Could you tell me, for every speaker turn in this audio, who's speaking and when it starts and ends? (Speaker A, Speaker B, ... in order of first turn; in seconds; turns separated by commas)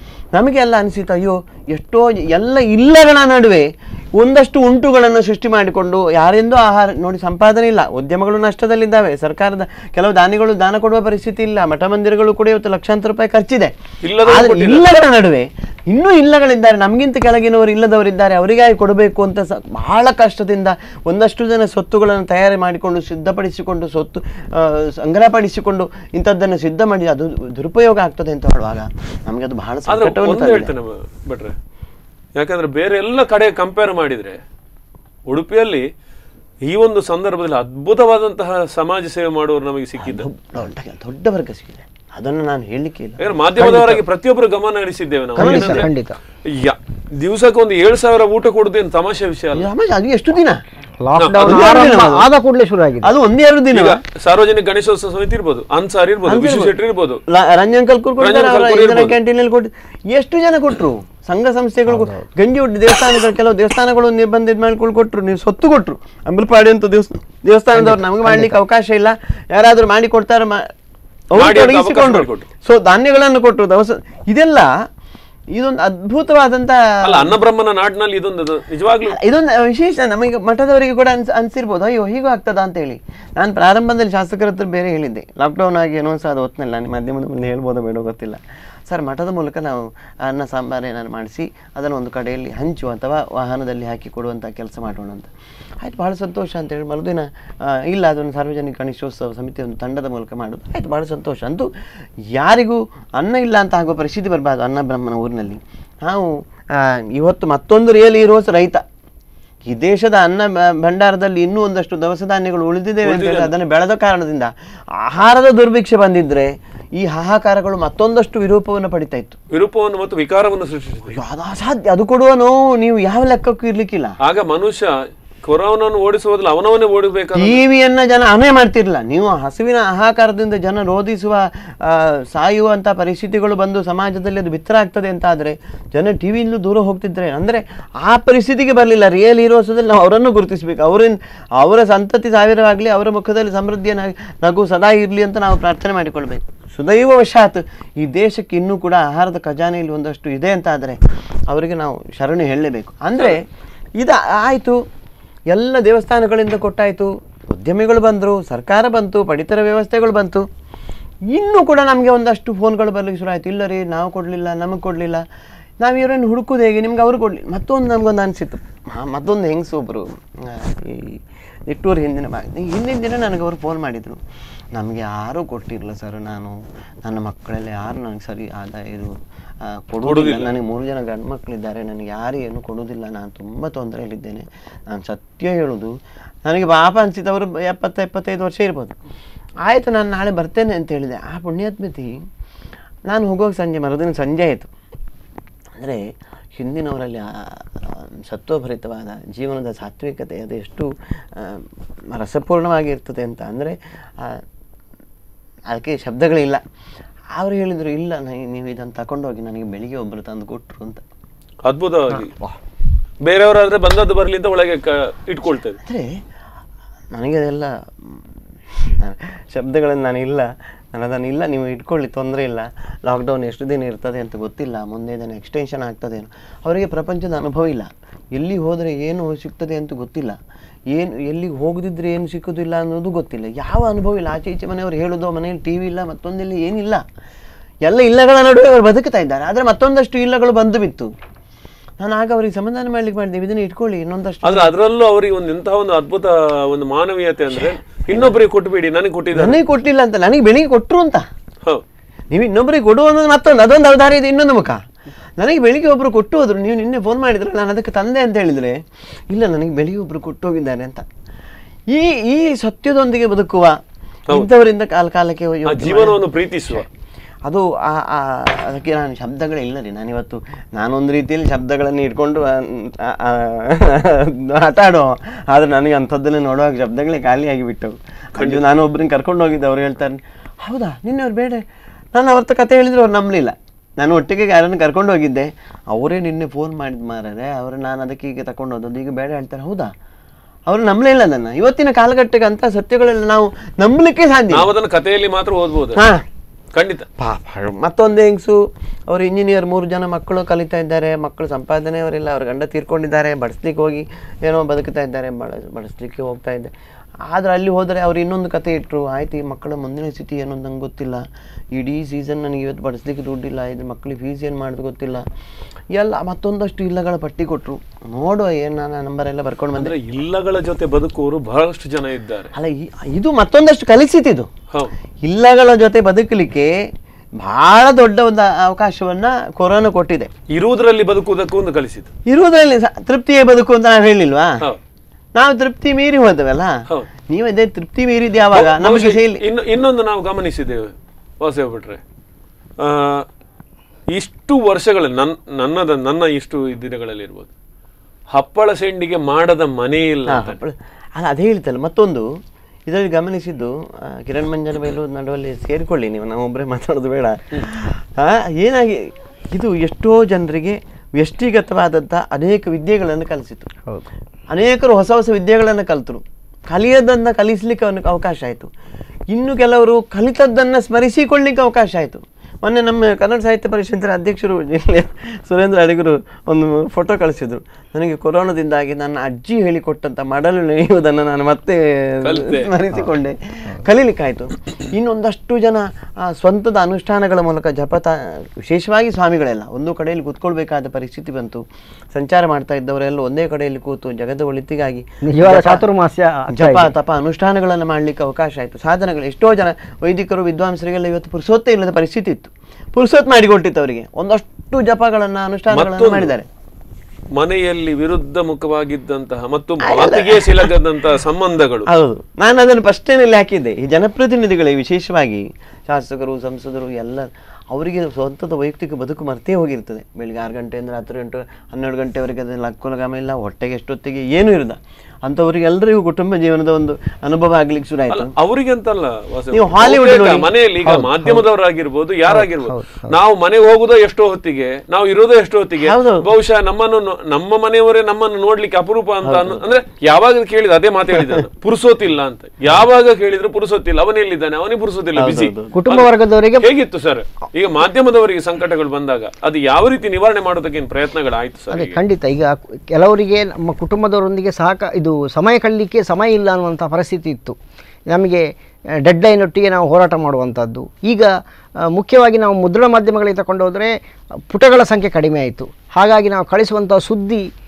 Speaker A: 0.3-30.7, Speaker B: 14.0-14.8, Speaker B: 29.9-31.5, Speaker B: 32.4-34.4, Speaker B: 35.3-35.9, Speaker B: 36.6-40.3, Speaker A: 40.0-44.0, Speaker B: 43.2-45.9, Speaker C: 45.4-46.2, Speaker A: 45.4-45.9, Speaker B: 46.5-49.7, Speaker A: 49.5-50.6, Speaker C: 51.0-53.1, Speaker B: 51.2-51.6, Speaker A: 51.4-52.3, Speaker A: 53.0-54.0, Speaker B: 53.7-57.2, Speaker A: 56.2-56.8, Speaker A: 57.3-70.6, Speaker B: 58.2-59.2, Speaker C: 67.8-68.6, Speaker A: 71.3-74.7, Speaker B: 71.3-72.5, Speaker A: 75.5-77.4, Speaker B: 77.0-79.2, Speaker A: 79.0-95.3, Speaker A: 95.8-101.7, Speaker A: 102.3-108.8, Speaker A: 109.6-119.4, Speaker B: 113.0-113.5, Speaker B: 119.5-121.2, Speaker A: 121.1-124.1, Speaker B: 124.2-127.6, Speaker A: 127.3-153.4, Speaker A: 154.0-154.8, Speaker A: 155.5-160.4, Speaker A: 161.3-165.2, Speaker A: 165.8-174.2, Speaker A: 174.7-185.9, Speaker B: 180.0-180.5, Speaker A: 186.4-188.9, Speaker A: 189.6-192.2, Speaker A: 193.1-194.7, Speaker A: 195.8-196.0, Speaker A: 196.5-204.4, Speaker A: 205.7-206.6, Speaker A: 207.3-211.0, Speaker B: 211.6-212.3, Speaker B: 213.2-215.8, Speaker A: 215.8-216.2, Speaker A: 217.1-218.2, Speaker A: 218.8-230.3, Speaker A: 230.9-237.0, Speaker A: 237.8-241.1, Speaker A: 242.0-244.7, Speaker B: 244.4-249.6, Speaker A: 247.5-248.3, Speaker A: 249.3-251.2, Speaker A: 252.3-254.8, Speaker A: 255.4-261.1, Speaker A: 261.9-263.8, Speaker A: 264.3-266.2, Speaker B: 265.6-266.9, Speaker A: 267.4-289.9, Speaker B: 278.4-278.6, Speaker A: 290.7-294.7, Speaker B: 294.5-296.0, Speaker A: 295.9-296.2, Speaker B: 296.7-297.1, Speaker A: 297.2-306.7, Speaker A: 307.2-315.2, Speaker A: 315.9-319.9, Speaker B: 319.8-322.5, Speaker A: 322.5-324.5, Speaker A: 325.2-326.7, Speaker A: 327.4-330.3, Speaker B: 330.5-332.1, Speaker A: 332.2-334.6, Speaker A: 335.4-339.4, Speaker B: 338.5-342.0, Speaker B: 342.8-343.2, Speaker B: 344.1-347.5, Speaker B: 348.3-350.6, Speaker A: 350.3-352.3, Speaker A: 352.9-363.7, Speaker A: 364.5-368.7, Speaker A: 369.3-395.8, Speaker B: 382.2-382.7, Speaker C: 395.2-396.9, Speaker A: 396.5-406.5, Speaker B: 405.7-406.3, Speaker B: 407.3-411.9, Speaker A: 409.8-410.7, Speaker A: 411.9-428.3, Speaker B: 428.1-452.0, Speaker A: 429.5-430.5, Speaker C: 430.9-431.4, Speaker C: 432.3-433.1, Speaker A: 435.8-436.3, Speaker A: 439.2-439.6, Speaker A: 445.1-445.8, Speaker C: 445.7-446.7, Speaker C: 451.7-457.6, Speaker C: 458.1-458.5, Speaker C: 459.0-461.3, Speaker C: 461.9-463.9, Speaker C: 464.5-467.4